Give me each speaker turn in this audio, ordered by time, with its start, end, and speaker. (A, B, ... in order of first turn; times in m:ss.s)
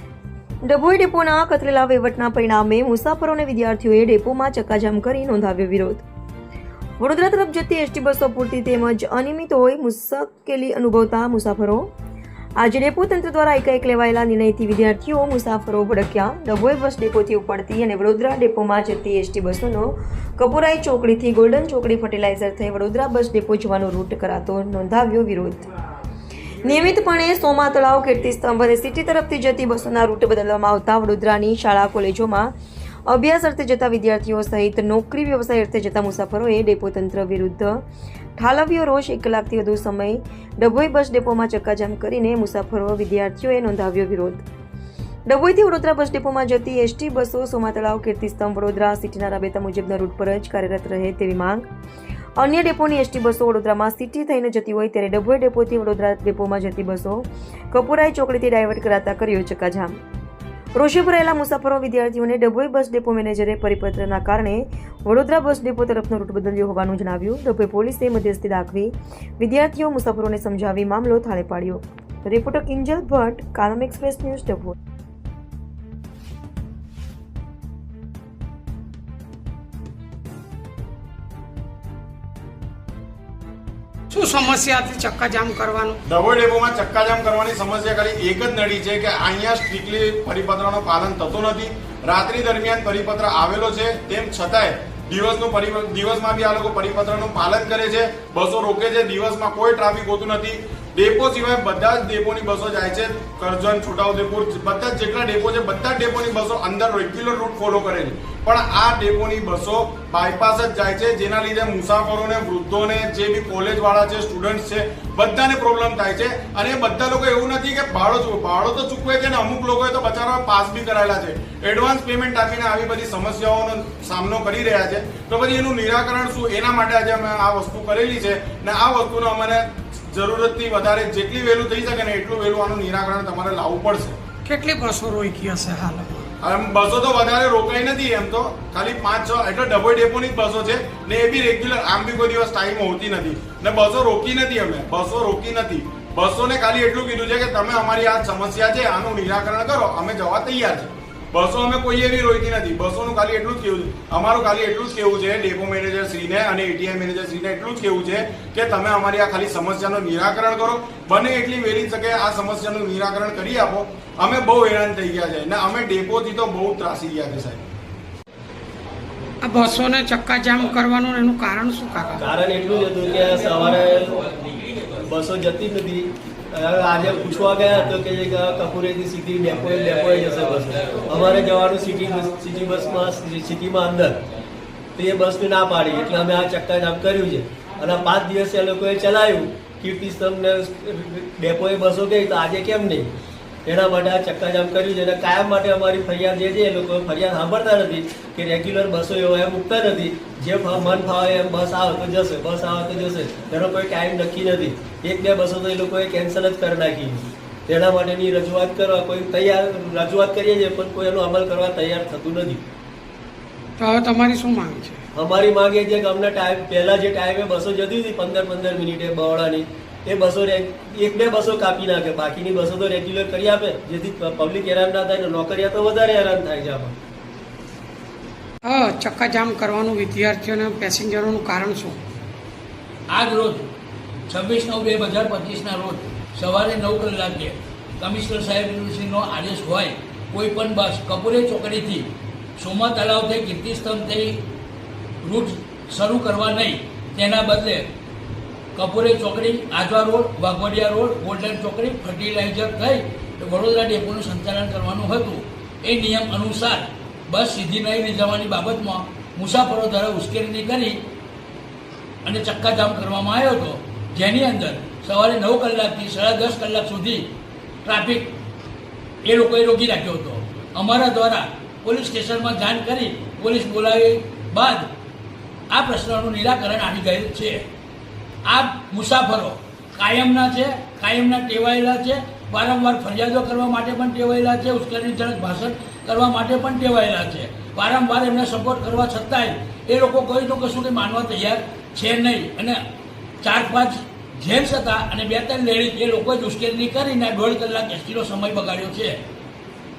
0:00.6-0:06.0 A
0:07.0-0:11.9 A
0:12.6-0:25.7 A
0:26.6-0:32.5 A
0:33.1-0:37.8 A
0:38.4-0:44.4 A
0:45.3-0:51.7 A
0:52.4-1:00.0 A
1:00.8-1:14.8 A
1:24.1-1:26.0 B
1:26.1-2:14.2 C
2:14.5-2:16.3 B
2:16.4-2:47.6 C
2:49.4-2:52.2 B
2:52.2-2:54.3 D
2:55.0-3:04.2 D
3:05.0-3:13.1 D
3:13.7-3:32.6 D
3:33.8-3:35.0 B
3:35.1-3:47.0 D
3:48.7-3:52.0 B
3:53.1-3:53.7 E
3:54.3-4:04.4 E
4:05.2-4:07.9 E
4:08.8-4:21.0 E
4:22.2-4:27.3 E
4:27.8-4:28.4 E
4:29.2-4:34.9 E
4:35.7-4:37.7 E
4:38.5-4:52.8 E
4:53.4-4:59.2 E